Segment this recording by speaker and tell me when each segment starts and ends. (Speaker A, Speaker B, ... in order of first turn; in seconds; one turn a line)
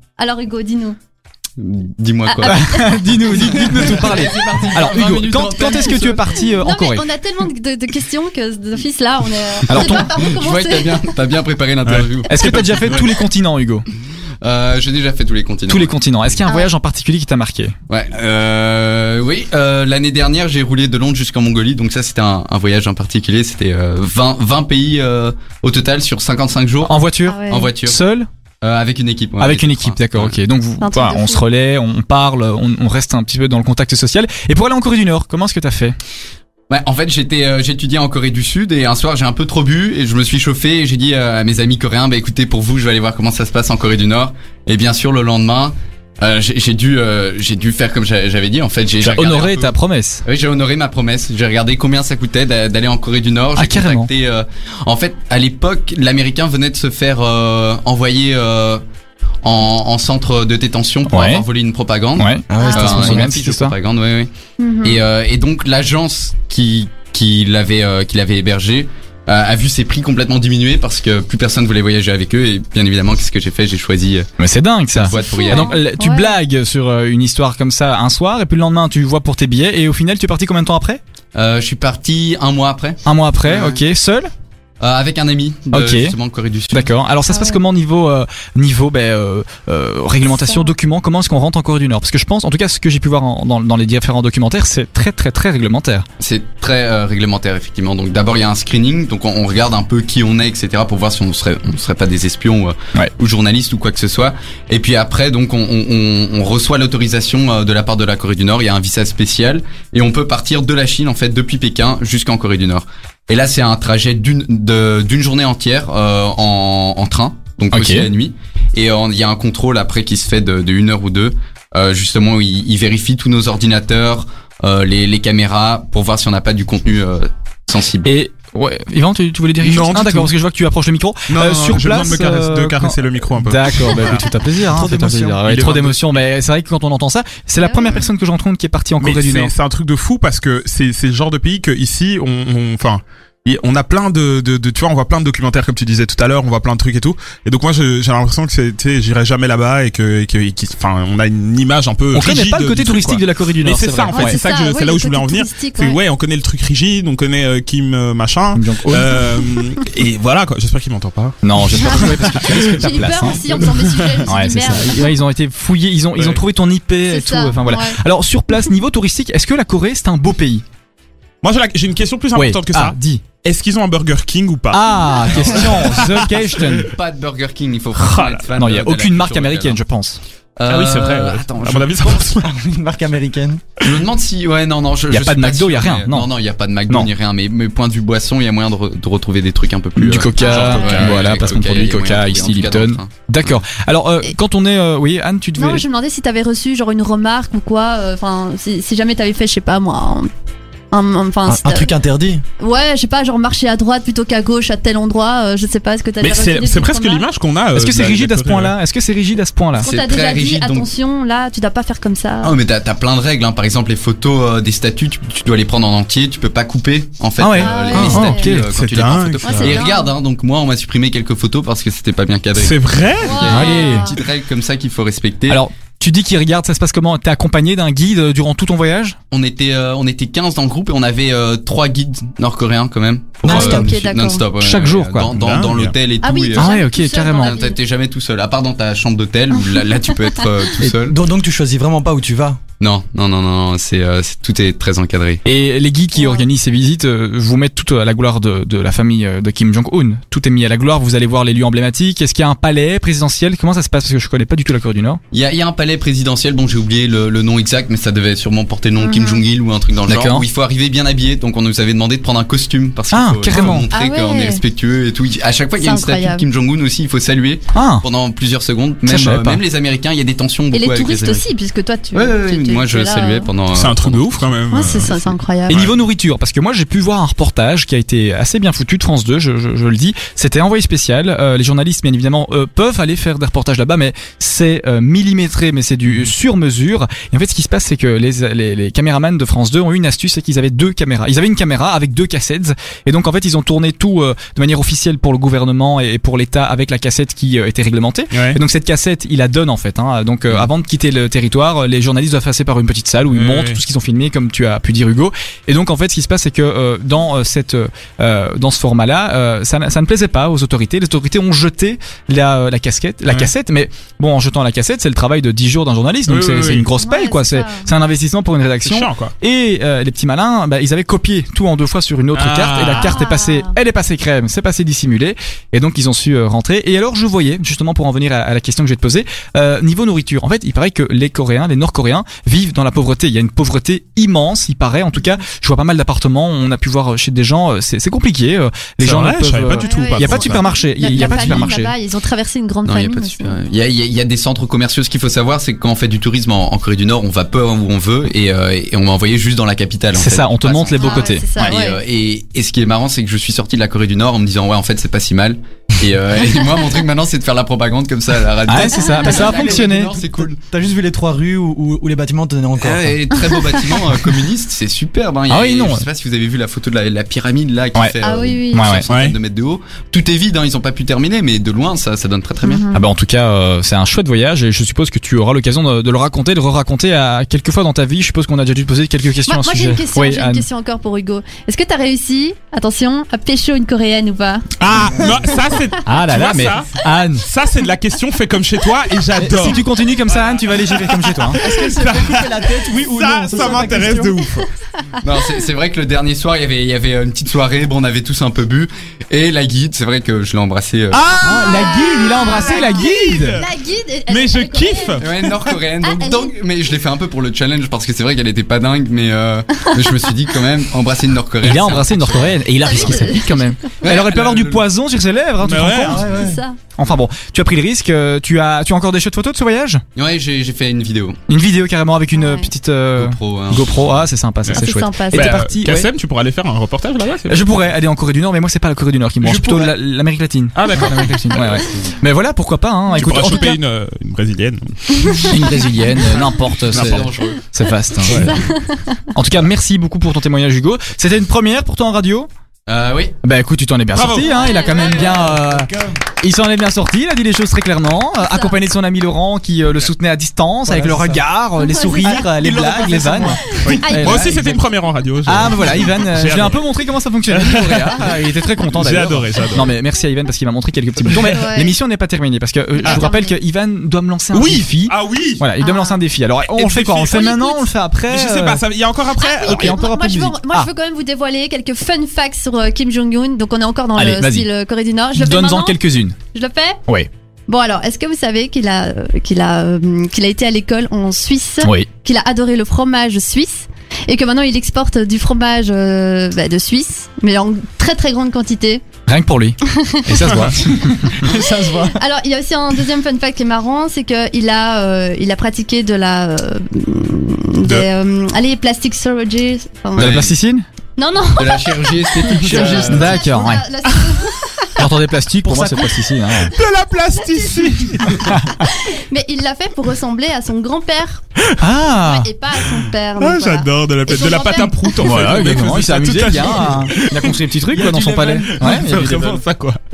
Speaker A: 0.2-0.9
Speaker B: 1.6-6.4
Speaker A: 2.2-3.9
Speaker C: 2.5-7.0
Speaker A: 6.6-11.1
Speaker C: 9.7-10.1
Speaker B: 9.7-12.9
Speaker D: 11.8-12.9
Speaker C: 12.3-13.8
Speaker B: 14.4-15.9
Speaker C: 15.7-17.7
Speaker A: 16.4-16.7
Speaker B: 17.9-28.0
Speaker C: 26.9-28.3
Speaker A: 27.2-27.7
Speaker B: 28.6-30.4
Speaker C: 29.4-35.9
Speaker A: 30.8-31.4
Speaker B: 36.7-49.7
Speaker C: 49.0-50.2
Speaker B: 50.2-58.8
Speaker C: 53.5-54.1
Speaker B: 59.4-64.3
Speaker C: 61.1-61.5
Speaker C: 62.2-63.7
Speaker E: 62.5-63.3
Speaker A: 62.6-63.0
Speaker A: 64.6-65.0
Speaker B: 64.8-74.3
Speaker C: 74.4-81.0
Speaker B: 74.9-75.8
Speaker A: 75.1-76.4
Speaker B: 81.3-83.8
Speaker C: 83.0-84.3
Speaker B: 84.8-86.9
Speaker C: 85.7-86.1
Speaker C: 86.7-96.0
Speaker A: 87.3-87.6
Speaker A: 90.2-90.6
Speaker B: 96.2-128.1
Speaker C: 117.7-118.0
Speaker C: 128.0-139.5
Speaker D: 129.6-130.3
Speaker D: 131.3-134.3
Speaker E: 134.6-136.0
Speaker A: 137.6-138.1
Speaker D: 139.0-162.4
Speaker C: 152.1-154.4
Speaker A: 154.1-156.0
Speaker C: 158.5-159.2
Speaker C: 161.4-163.7
Speaker A: 161.7-165.1
Speaker D: 163.7-164.2
Speaker C: 164.2-170.6
Speaker D: 166.2-166.4
Speaker A: 167.1-168.0
Speaker D: 171.4-176.2
Speaker C: 172.3-173.2
Speaker C: 174.7-176.9
Speaker B: 175.7-179.8
Speaker D: 178.0-178.4
Speaker C: 178.6-180.2
Speaker B: 180.6-182.2
Speaker D: 180.7-182.5
Speaker E: 182.4-183.6
Speaker B: 183.8-193.1
Speaker C: 185.1-186.3
Speaker C: 190.0-195.8
Speaker A: 190.4-191.0
Speaker D: 190.7-191.2
Speaker A: 195.6-200.3
Speaker A: 200.9-201.9
Speaker E: 201.5-202.4
Speaker A: 202.6-207.3
Speaker D: 206.2-208.8
Speaker C: 207.7-209.9
Speaker A: 209.8-212.6
Speaker B: 209.8-210.9
Speaker B: 212.4-225.6
Speaker C: 217.4-218.6
Speaker A: 217.6-218.5
Speaker D: 218.6-219.8
Speaker A: 219.4-220.1
Speaker D: 222.6-223.5
Speaker A: 223.2-224.1
Speaker C: 223.5-224.1
Speaker C: 225.5-229.2
Speaker B: 229.3-236.8
Speaker E: 233.4-233.9
Speaker A: 233.5-234.4
Speaker C: 234.6-235.3
Speaker D: 235.3-235.9
Speaker A: 236.2-237.8
Speaker C: 236.5-237.6
Speaker B: 237.3-241.2
Speaker A: 239.6-240.6
Speaker E: 240.8-242.6
Speaker B: 242.8-245.4
Speaker C: 245.4-255.2
Speaker A: 246.2-246.4
Speaker B: 255.3-271.4
Speaker A: 259.0-259.4
Speaker C: 260.1-260.4
Speaker C: 263.1-263.9
Speaker A: 263.9-264.6
Speaker A: 265.8-266.4
Speaker C: 267.7-268.0
Speaker C: 269.1-269.6
Speaker A: 270.7-273.5
Speaker B: 272.1-274.5
Speaker D: 273.7-275.9
Speaker A: 274.7-275.8
Speaker C: 275.7-341.9
Speaker D: 298.3-298.6
Speaker D: 303.3-303.8
Speaker D: 316.3-316.9
Speaker A: 316.9-318.0
Speaker D: 318.8-319.3
Speaker D: 322.3-323.2
Speaker A: 322.9-323.8
Speaker D: 339.0-340.6
Speaker A: 339.8-343.6
Speaker B: 341.3-341.7
Speaker B: 342.8-360.6
Speaker C: 350.1-351.7
Speaker A: 351.0-352.0
Speaker C: 358.7-360.1
Speaker A: 359.0-359.4
Speaker E: 359.2-363.2
Speaker B: 362.8-372.8
Speaker C: 365.5-366.1
Speaker A: 368.2-369.0
Speaker C: 368.7-369.0
Speaker D: 369.1-369.3
Speaker A: 372.6-373.0
Speaker C: 372.9-380.6
Speaker A: 379.4-384.6
Speaker D: 384.8-389.8
Speaker C: 386.0-387.5
Speaker C: 389.4-391.6
Speaker D: 390.5-394.7
Speaker E: 391.5-394.4
Speaker A: 393.6-393.9
Speaker B: 395.2-401.2
Speaker D: 401.1-403.7
Speaker C: 401.4-403.6
Speaker A: 401.5-406.5
Speaker D: 404.3-405.3
Speaker B: 405.2-412.6
Speaker C: 411.6-416.2
Speaker A: 412.8-413.8
Speaker B: 414.0-414.8
Speaker D: 415.6-416.3
Speaker E: 416.0-416.6
Speaker A: 416.2-416.8
Speaker C: 417.0-420.0
Speaker B: 420.1-421.4
Speaker C: 421.5-426.1
Speaker A: 422.3-422.7
Speaker B: 423.2-424.0
Speaker D: 424.6-427.6
Speaker A: 424.7-425.6
Speaker C: 427.5-433.8
Speaker E: 429.5-429.9
Speaker D: 430.7-431.6
Speaker D: 433.1-435.5
Speaker A: 435.2-435.8
Speaker C: 435.4-438.6
Speaker B: 436.9-437.6
Speaker A: 438.2-439.2
Speaker C: 439.3-442.5
Speaker B: 442.9-443.4
Speaker C: 443.4-454.8
Speaker D: 444.1-444.6
Speaker A: 444.3-445.5
Speaker A: 448.4-448.8
Speaker E: 450.9-451.4
Speaker A: 451.8-452.5
Speaker E: 452.6-453.6
Speaker D: 452.9-456.8
Speaker A: 453.7-454.7
Speaker C: 455.4-468.8
Speaker D: 457.5-458.4
Speaker D: 458.9-459.9
Speaker D: 461.3-461.6
Speaker A: 461.3-461.9
Speaker A: 463.0-463.5
Speaker D: 464.5-465.6
Speaker A: 465.8-466.2
Speaker D: 466.6-467.7
Speaker A: 467.3-467.7
Speaker D: 468.3-470.0
Speaker A: 469.4-476.0
Speaker C: 469.6-470.9
Speaker C: 474.1-474.7
Speaker C: 475.3-476.4
Speaker A: 476.5-477.0
Speaker A: 477.7-489.0
Speaker C: 489.3-491.5
Speaker A: 489.9-490.4
Speaker E: 490.7-492.2
Speaker A: 491.4-500.3
Speaker B: 500.1-500.5
Speaker C: 500.1-500.8
Speaker A: 501.2-505.1
Speaker B: 501.6-503.4
Speaker C: 502.7-503.8
Speaker C: 505.0-506.7
Speaker E: 505.6-506.1
Speaker D: 506.6-508.5
Speaker A: 507.3-508.0
Speaker E: 508.0-508.4
Speaker C: 508.4-508.8
Speaker A: 508.8-511.4
Speaker C: 511.8-512.5
Speaker A: 512.1-515.7
Speaker D: 512.9-517.6
Speaker C: 515.2-519.4
Speaker E: 517.9-519.6
Speaker D: 518.6-520.0